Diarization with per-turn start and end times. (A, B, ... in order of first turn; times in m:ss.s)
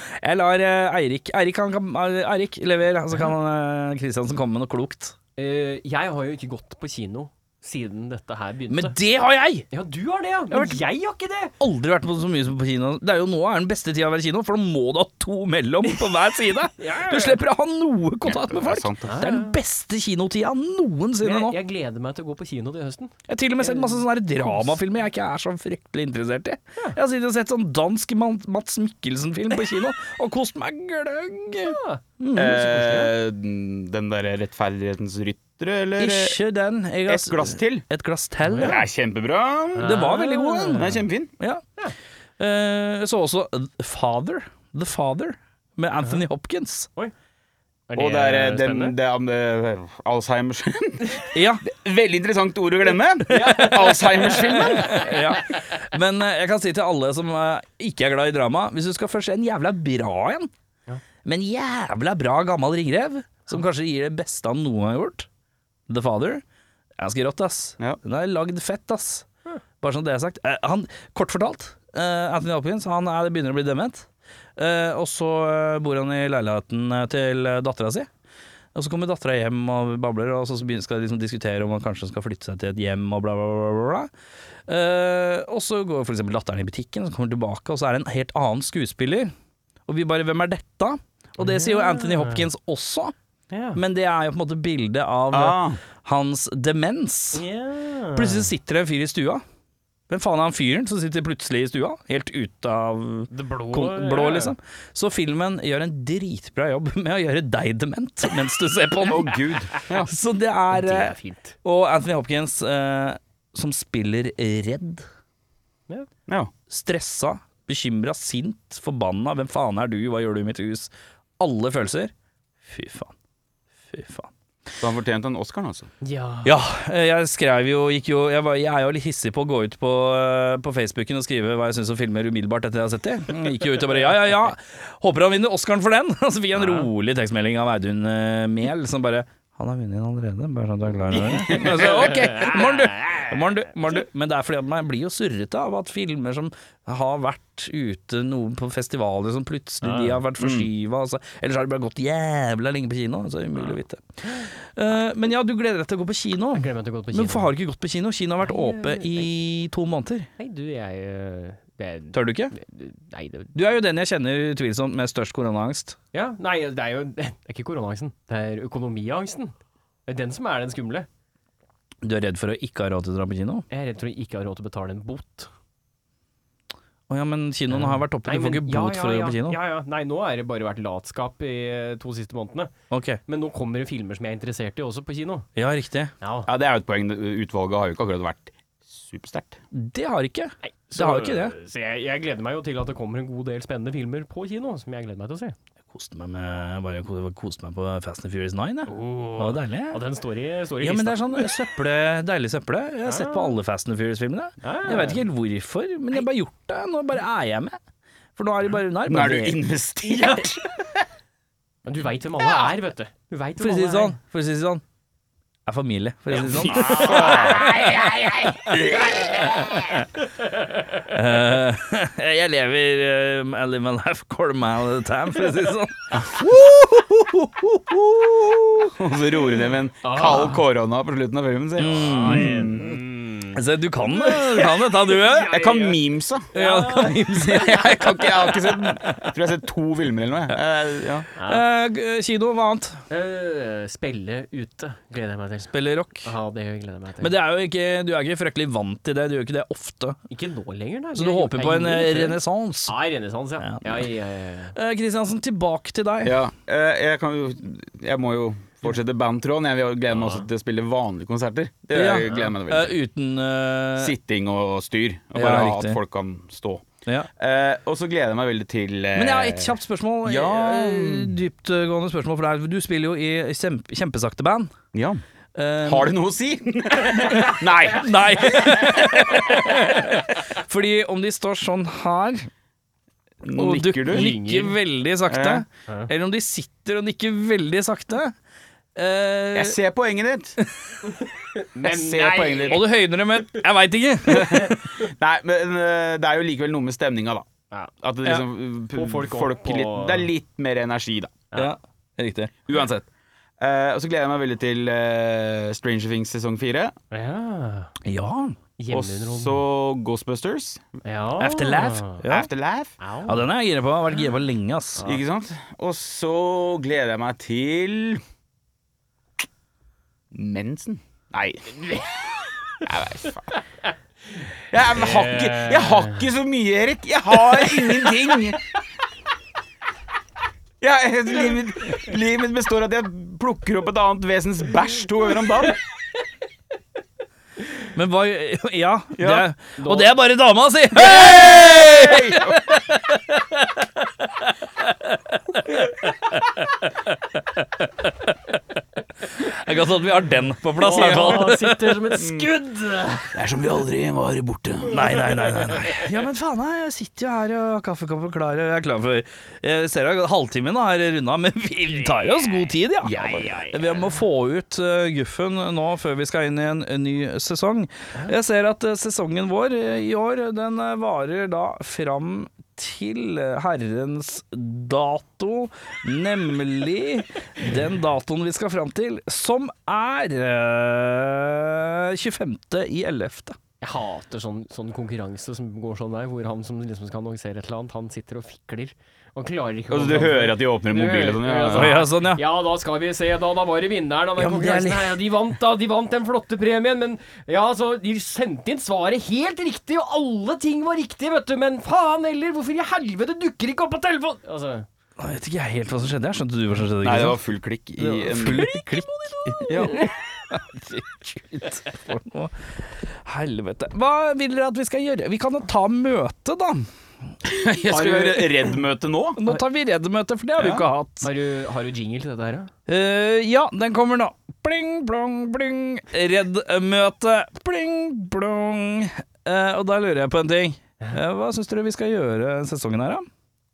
0:00.2-0:05.2 A
0:05.4-0:08.9 B
0:08.7-0:09.7 A
0:09.7-0:11.5 B
0:10.5-0:10.8 A
0:11.6-0:21.6 A
0:16.8-0:17.4 B
0:18.2-0:19.1 C
0:19.1-0:19.6 B
0:21.2-0:24.8 B
0:23.3-0:32.6 A
0:31.6-0:33.1 B
0:32.3-0:36.4 C
0:36.0-0:38.8 A
0:37.1-0:37.8 C
0:38.4-0:38.8 B
0:38.6-0:40.0 C
0:39.8-0:41.0 B
0:39.8-0:41.6 A
0:40.7-0:41.3 C
0:42.4-0:46.9 A
0:47.9-0:48.9 B
0:48.0-0:55.1 C
0:51.3-0:51.6 A
0:53.3-0:55.6 B
0:53.3-1:00.5 A
1:01.2-1:05.3 A
1:05.9-1:06.4 A
1:07.0-1:09.3 A
1:09.8-1:18.1 A
1:18.7-1:24.1 A
1:24.7-1:29.3 A
1:29.9-1:33.1 A
1:31.4-1:32.5 B
1:33.5-1:33.8 B
1:33.7-1:37.4 A
1:35.3-1:35.8 C
1:37.3-1:38.5 B
1:38.1-1:39.4 A
1:40.1-1:49.4 A
1:43.3-1:44.5 B
1:49.1-1:50.1 C
1:50.0-1:55.0 A
1:50.7-1:51.6 B
1:56.3-1:56.5 C
1:56.7-2:02.1 A
2:02.6-2:03.1 A
2:03.9-2:04.3 A
2:04.8-2:05.9 C
2:06.0-2:06.5 B
2:06.4-2:40.3 A
2:16.6-2:16.9 B
2:21.1-2:23.4 B
2:21.5-2:21.8 C
2:29.8-2:30.2 B
2:30.4-2:30.7 C
2:33.6-2:34.5 B
2:36.5-2:37.5 B
2:38.4-2:39.3 B
2:40.4-2:43.5 B
2:42.1-2:42.5 A
2:43.5-2:46.0 A
2:46.1-2:49.5 B
2:50.1-2:51.1 B
2:52.0-2:53.6 A
2:53.7-2:55.5 B
2:57.1-2:59.6 A
2:57.7-3:02.7 B
3:02.9-3:03.2 A
3:03.3-3:05.5 B
3:05.6-3:06.1 A
3:06.2-3:06.5 B
3:06.5-3:09.6 C
3:09.7-3:11.5 A
3:10.6-3:15.5 B
3:15.9-3:20.0 A
3:18.9-3:21.5 B
3:20.8-3:27.8 A
3:23.0-3:23.6 B
3:24.6-3:25.2 B
3:28.4-3:29.6 A
3:29.0-3:31.0 C
3:30.1-3:30.4 B
3:31.8-3:34.2 B
3:33.6-3:34.8 A
3:35.6-3:40.0 A
3:36.4-3:39.8 C
3:36.5-3:37.8 B
3:40.4-3:41.0 B
3:41.0-3:48.9 A
3:46.1-3:46.8 C
3:48.9-3:53.0 C
3:50.0-3:50.6 B
3:51.8-3:52.6 A
3:51.8-3:56.0 B
3:53.5-3:55.5 A
3:55.5-3:56.5 C
3:56.5-3:58.2 B
3:56.5-3:59.3 A
3:57.3-4:01.3 C
4:01.3-4:03.0 A
4:01.4-4:01.6 B
4:03.1-4:05.7 B
4:05.7-4:06.3 A
4:06.2-4:07.3 B
4:07.2-4:10.2 A
4:10.3-4:14.7 B
4:11.1-4:12.9 A
4:13.6-4:14.1 A
4:14.7-4:16.4 A
4:16.2-4:23.0 C
4:20.2-4:20.4 B
4:21.9-4:24.1 A
4:24.0-4:31.4 C
4:25.3-4:26.0 A
4:29.1-4:34.7 A
4:34.9-4:35.2 C
4:35.5-4:36.1 A
4:35.8-4:39.4 C
4:37.3-4:42.5 A
4:39.7-4:40.0 B
4:43.4-4:44.3 C
4:43.5-4:48.3 A
4:44.1-4:44.8 B
4:45.3-4:45.6 C
4:49.0-4:49.8 A
4:49.5-4:50.6 C
4:51.0-4:52.8 B
4:51.8-4:52.8 C
4:52.7-4:54.9 A
4:54.3-4:57.4 C
4:58.0-5:01.4 C
4:58.9-5:00.3 B
5:01.5-5:02.5 A
5:02.6-5:03.1 C
5:03.6-5:06.9 C
5:07.1-5:07.9 B
5:08.0-5:08.6 A
5:08.8-5:09.6 B
5:08.9-5:10.9 C
5:11.0-5:12.2 B
5:11.4-5:12.5 A
5:12.3-5:12.9 C
5:13.0-5:13.5 B
5:13.3-5:15.0 A
5:15.0-5:15.2 B
5:15.0-5:18.2 C
5:20.3-5:23.6 C
5:23.5-5:26.3 B
5:24.7-5:28.6 C
5:27.5-5:28.3 B
5:30.8-5:35.8 C
5:37.9-5:48.3 A
5:39.2-5:39.4 C
5:39.8-5:40.1 B
5:41.0-5:42.6 C
5:49.3-5:52.1 A
5:50.8-5:53.4 B
5:50.9-5:51.4 C
5:52.2-5:52.5 C
5:53.3-5:55.2 C
5:54.9-6:23.6 A
5:55.7-5:56.0 B
6:02.0-6:04.2 B
6:03.0-6:03.4 C
6:23.8-6:44.9 B
6:29.9-6:32.0 C
6:31.7-6:32.4 A
6:34.4-6:35.2 A
6:45.2-6:47.4 A
6:47.0-6:48.7 C
6:48.0-6:56.9 A
6:49.2-6:50.1 B
6:49.7-6:50.0 C
6:57.4-6:59.4 C
6:57.9-6:58.7 B
6:59.4-7:01.3 A
7:00.6-7:00.8 C
7:01.2-7:02.7 B
7:02.9-7:13.3 A